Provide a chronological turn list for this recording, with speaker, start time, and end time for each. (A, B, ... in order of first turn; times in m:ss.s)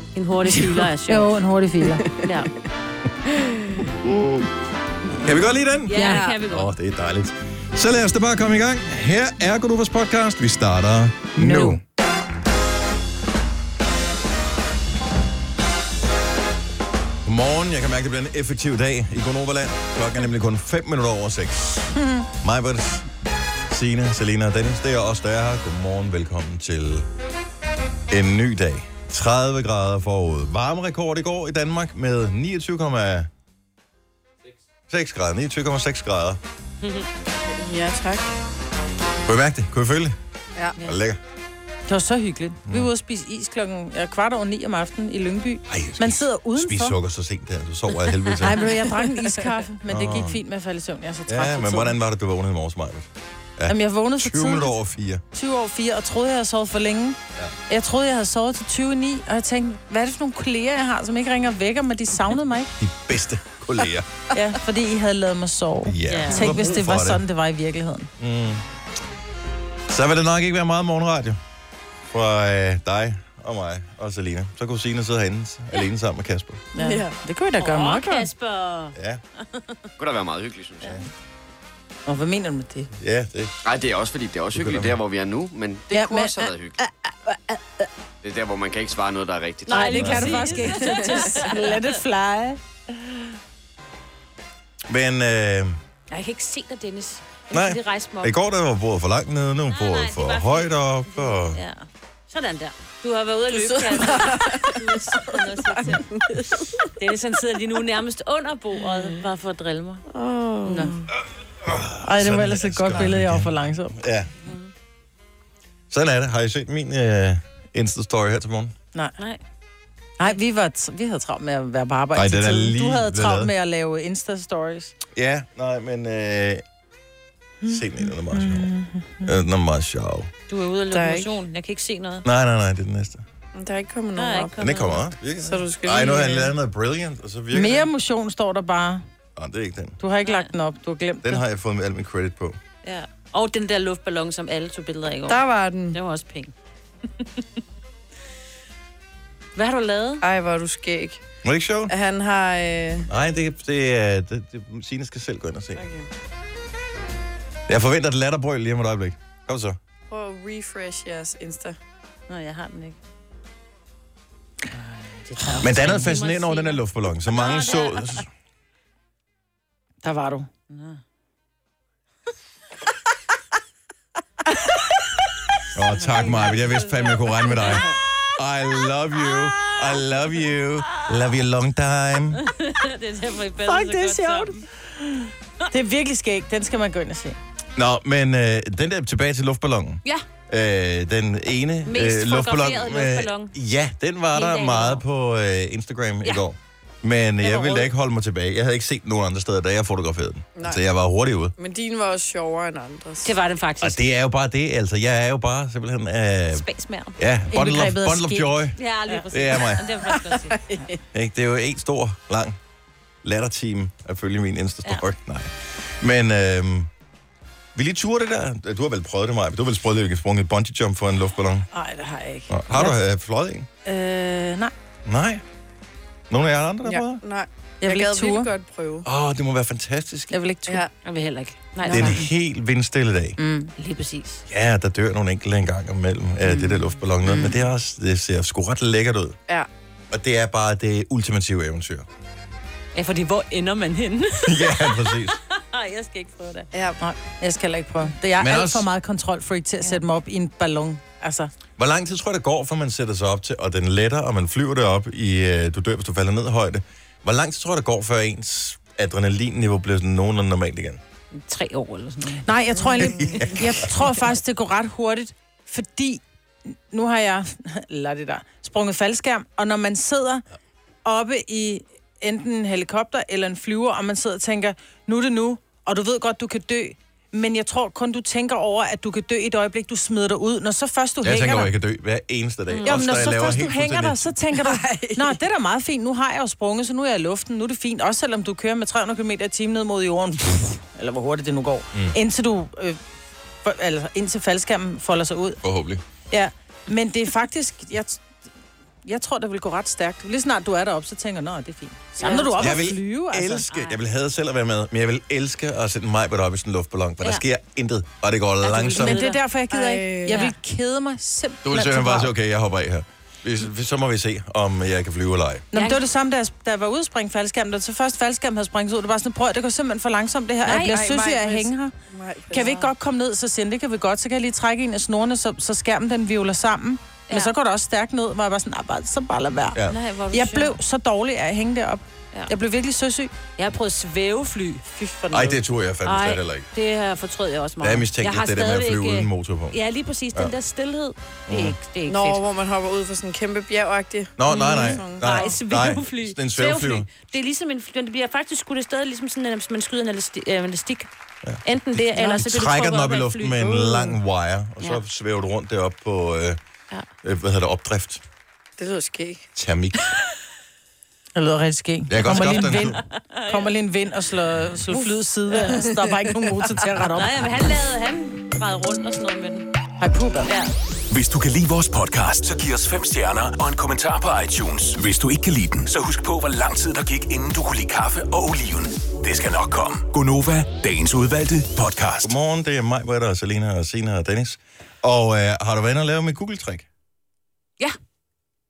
0:00.2-0:01.3 A
0:01.1-0:02.0 B
0:01.9-0:02.3 C
0:02.2-0:02.5 A
0:04.0-0:04.5 D
0:05.2-0:11.8 D
0:05.9-0:06.7 A
0:06.0-0:06.3 C
0:11.4-0:11.8 B
0:17.2-0:21.9 D
0:22.0-0:22.3 B
0:22.4-0:23.1 D
0:23.7-0:27.1 D
0:28.1-0:33.3 D
0:34.9-0:36.4 D
0:37.6-0:38.3 C
0:39.2-0:40.2 D
0:40.8-0:41.2 D
0:41.9-0:47.0 B
0:45.7-0:48.7 D
0:48.4-0:52.0 B
0:49.9-0:50.4 D
0:51.3-0:55.2 D
0:53.7-0:54.8 B
0:55.3-0:57.2 B
0:57.7-1:02.7 B
1:02.8-1:04.1 D
1:04.3-1:08.1 B
1:05.8-1:07.2 D
1:06.1-1:06.5 A
1:08.2-1:08.6 D
1:09.9-1:11.4 D
1:12.1-1:16.6 D
1:16.8-1:18.3 B
1:16.8-1:17.1 C
1:17.6-1:18.9 A
1:19.0-1:19.2 D
1:20.0-1:21.0 E
1:22.1-1:22.9 B
1:23.0-1:23.5 D
1:23.6-1:26.8 E
1:24.5-1:25.0 D
1:25.9-1:27.9 B
1:28.2-1:30.0 E
1:29.7-1:32.0 A
1:29.7-1:33.2 B
1:29.9-1:30.4 D
1:34.9-1:35.8 D
1:36.1-1:38.4 A
1:37.5-1:41.6 D
1:39.7-1:50.0 A
1:43.5-1:46.8 C
1:50.1-1:51.1 C
1:50.6-1:50.9 A
1:51.6-1:54.3 D
1:52.0-1:54.0 B
1:54.4-1:54.7 A
1:55.9-1:58.7 D
2:00.2-2:05.0 B
2:02.2-2:03.5 D
2:05.1-2:06.6 D
2:07.6-2:09.3 B
2:07.7-2:08.7 D
2:09.2-2:10.3 D
2:10.5-2:12.3 A
2:10.9-2:11.3 C
2:12.3-2:13.2 D
2:13.5-2:14.6 C
2:14.2-2:15.1 A
2:14.6-2:17.9 D
2:15.4-2:16.5 C
2:17.5-2:19.0 B
2:19.4-2:20.0 D
2:20.0-2:21.4 B
2:20.2-2:20.5 A
2:21.2-2:22.6 D
2:22.8-2:26.5 A
2:25.3-2:26.0 C
2:29.6-2:30.2 A
2:30.2-2:31.2 C
2:31.4-2:31.9 D
2:31.9-2:33.1 C
2:33.1-2:35.9 D
2:35.8-2:36.1 C
2:37.7-2:39.8 D
2:40.1-2:41.8 C
2:42.3-2:43.0 A
2:44.7-2:48.2 A
2:45.6-2:48.3 D
2:50.0-2:50.5 B
2:50.7-2:51.0 A
2:55.8-3:02.4 D
2:56.1-2:56.8 A
2:57.5-2:57.8 A
3:02.4-3:04.6 A
3:03.7-3:07.4 B
3:07.8-3:21.6 D
3:11.9-3:13.5 A
3:14.3-3:15.0 A
3:17.4-3:17.9 A
3:20.6-3:20.8 C
3:21.6-3:23.3 C
3:23.2-3:24.0 A
3:23.8-3:26.6 D
3:26.5-3:27.2 A
3:27.2-3:28.8 D
3:27.5-3:28.5 B
3:28.8-3:30.6 A
3:29.3-3:29.9 D
3:30.1-3:31.0 C
3:31.1-3:32.6 D
3:33.2-3:36.9 D
3:37.8-3:41.7 D
3:41.7-3:43.0 B
3:42.5-3:43.7 D
3:43.8-3:44.7 B
3:45.0-3:45.4 D
3:46.3-3:47.2 D
3:46.8-3:49.1 C
3:47.8-3:48.5 B
3:49.0-3:50.4 D
3:50.3-3:50.8 B
3:51.0-3:52.3 A
3:51.8-3:52.2 C
3:51.9-3:53.4 D
3:53.4-3:53.7 B
3:53.8-3:54.4 A
3:54.5-3:59.4 D
3:56.5-3:56.8 A
4:00.1-4:02.1 D
4:03.0-4:06.7 A
4:04.4-4:05.4 D
4:06.7-4:07.0 C
4:07.0-4:11.5 B
4:08.4-4:08.9 D
4:11.8-4:21.0 D
4:21.3-4:22.4 A
4:22.4-4:30.4 B
4:22.8-4:23.5 C
4:23.0-4:23.8 D
4:31.0-4:41.7 B
4:41.2-4:44.4 D
4:42.7-4:43.1 A
4:42.8-4:53.0 B
4:44.6-4:45.3 C
4:53.6-4:55.6 B
4:55.6-4:56.0 D
4:56.3-4:58.2 B
4:59.0-5:03.7 B
5:02.2-5:02.5 C
5:02.2-5:02.8 A
5:02.6-5:09.3 D
5:03.7-5:04.0 A
5:08.6-5:09.4 A
5:09.0-5:12.3 B
5:09.7-5:10.5 C
5:11.6-5:15.6 D
5:15.7-5:21.9 B
5:15.7-5:16.0 A
5:20.7-5:22.8 C
5:22.5-5:29.8 B
5:27.3-5:27.5 A
5:29.9-5:30.8 A
5:30.3-5:33.3 B
5:33.6-5:34.8 A
5:35.0-5:35.6 C
5:35.3-5:36.7 D
5:36.0-5:42.4 A
5:37.8-5:39.8 D
5:41.5-5:41.8 D
5:42.1-5:45.5 C
5:44.4-5:47.1 D
5:44.5-5:51.1 A
5:51.6-5:54.1 A
5:52.4-5:56.6 D
5:57.2-5:58.2 D
5:58.8-5:59.4 C
5:59.6-6:00.1 D
6:01.4-6:07.4 B
6:02.1-6:03.0 D
6:02.6-6:03.7 A
6:04.9-6:06.3 C
6:07.2-6:09.7 A
6:10.0-6:10.5 B
6:10.5-6:10.7 A
6:11.1-6:22.4 F
6:22.2-6:26.9 D